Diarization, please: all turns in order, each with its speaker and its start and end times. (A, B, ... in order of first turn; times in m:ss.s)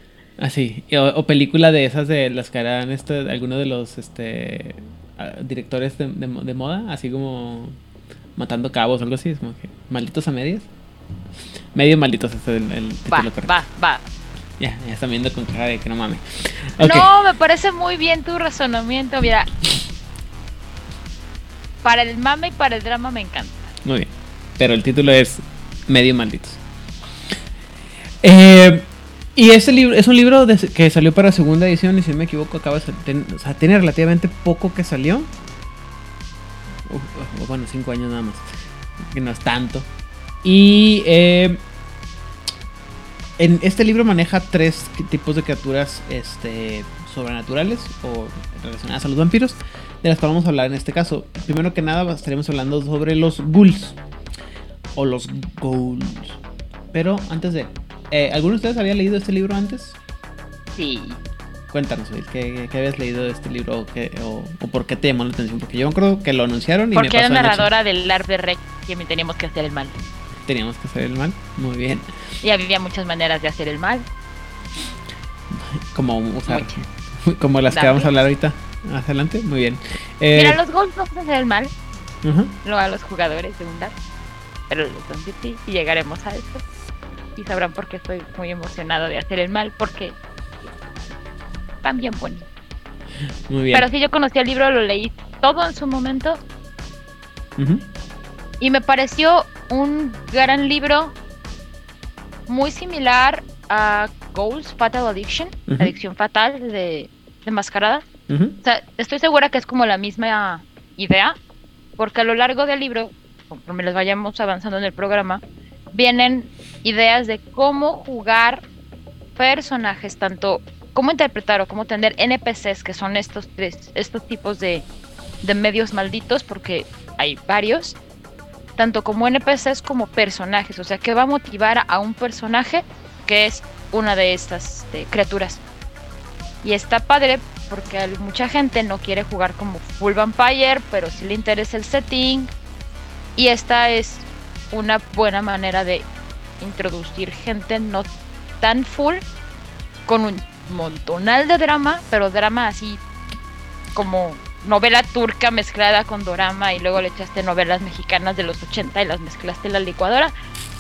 0:00.4-0:07.8 A
0:08.4-0:10.7 A
0:11.7-0:13.6 A
0:13.1-0:14.0 B
0:14.6-0:17.1 A
0:16.8-0:19.5 B
0:21.8-0:23.7 B
0:23.8-0:26.6 A
0:28.2-0:35.3 A
0:36.9-0:38.5 A
0:39.1-0:39.9 A
0:40.4-0:41.6 A
0:43.4-0:54.0 A
0:55.0-0:56.4 A
0:56.9-1:00.0 A
1:00.8-1:01.2 B
1:01.7-1:07.7 A
1:06.9-1:10.0 B
1:10.5-1:12.1 A
1:12.4-1:14.1 B
1:15.5-1:20.6 A
1:16.5-1:16.8 B
1:17.7-1:18.1 B
1:20.3-1:21.7 B
1:22.2-1:22.6 A
1:22.6-1:24.0 B
1:24.7-1:26.6 B
1:27.4-1:30.2 B
1:31.8-1:32.5 B
1:33.5-1:33.9 A
1:33.7-1:36.4 B
1:37.6-1:37.9 A
1:38.6-1:41.2 B
1:42.5-1:48.1 B
1:48.3-1:48.6 A
1:48.6-1:51.4 B
1:52.0-1:55.4 B
1:55.9-1:58.6 B
1:59.4-2:04.8 B
2:05.4-2:08.0 B
2:08.8-2:15.6 B
2:16.6-2:22.5 B
2:23.4-2:26.1 B
2:26.6-2:28.1 B
2:28.6-2:29.2 B
2:30.1-2:33.0 B
2:34.0-2:40.3 B